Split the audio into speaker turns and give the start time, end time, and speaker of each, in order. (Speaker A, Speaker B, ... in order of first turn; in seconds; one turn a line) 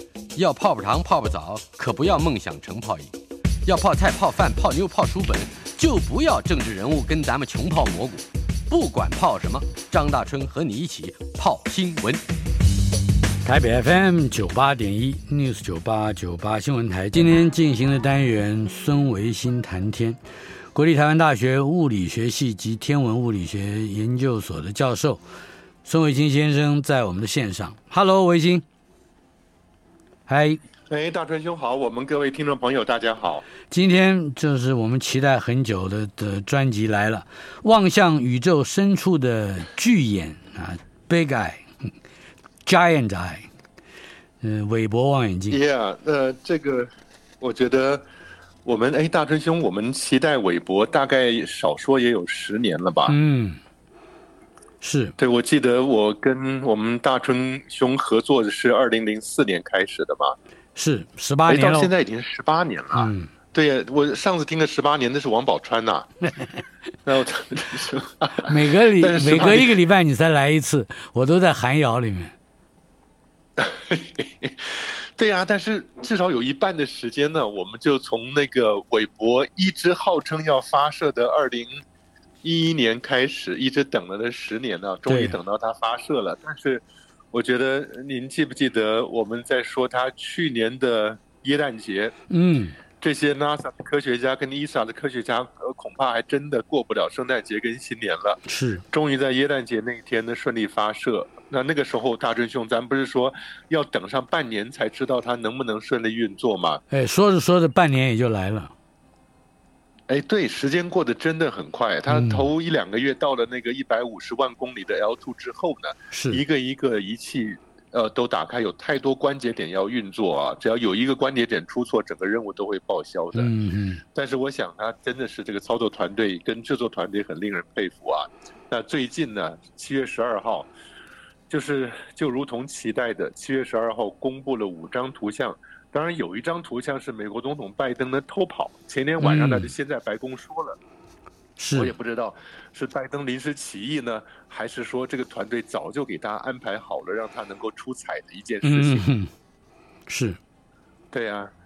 Speaker A: 0.3-3.1
Speaker A: 3.6-12.2
Speaker B: 13.4-20.2
Speaker B: 20.7-25.2
Speaker B: 25.8-28.6
Speaker B: 30.3-30.6
Speaker C: 30.9-33.5
Speaker B: 33.7-41.9
Speaker B: 42.7-43.5
Speaker B: 44.4-45.6
Speaker C: 45.5-48.0
Speaker C: 48.6-53.2
Speaker B: 53.0-53.6
Speaker B: 54.8-55.2
Speaker C: 55.2-60.4
Speaker B: 60.8-61.9
Speaker C: 61.5-66.1
Speaker B: 62.9-63.3
Speaker C: 67.0-69.8
Speaker B: 68.4-72.3
Speaker C: 73.6-81.8
Speaker C: 82.4-92.1
Speaker B: 85.1-85.4
Speaker B: 92.3-92.8
Speaker C: 93.0-106.8
Speaker B: 98.5-98.8
Speaker B: 106.9-108.7
Speaker C: 110.1-123.5
Speaker B: 112.1-112.5
Speaker B: 116.1-116.4
Speaker B: 123.3-124.0
Speaker C: 124.1-130.7
Speaker C: 131.5-140.8
Speaker B: 139.2-139.7
Speaker B: 141.6-141.9
Speaker C: 141.7-149.1
Speaker B: 148.6-149.3
Speaker B: 150.1-150.4
Speaker C: 151.1-151.5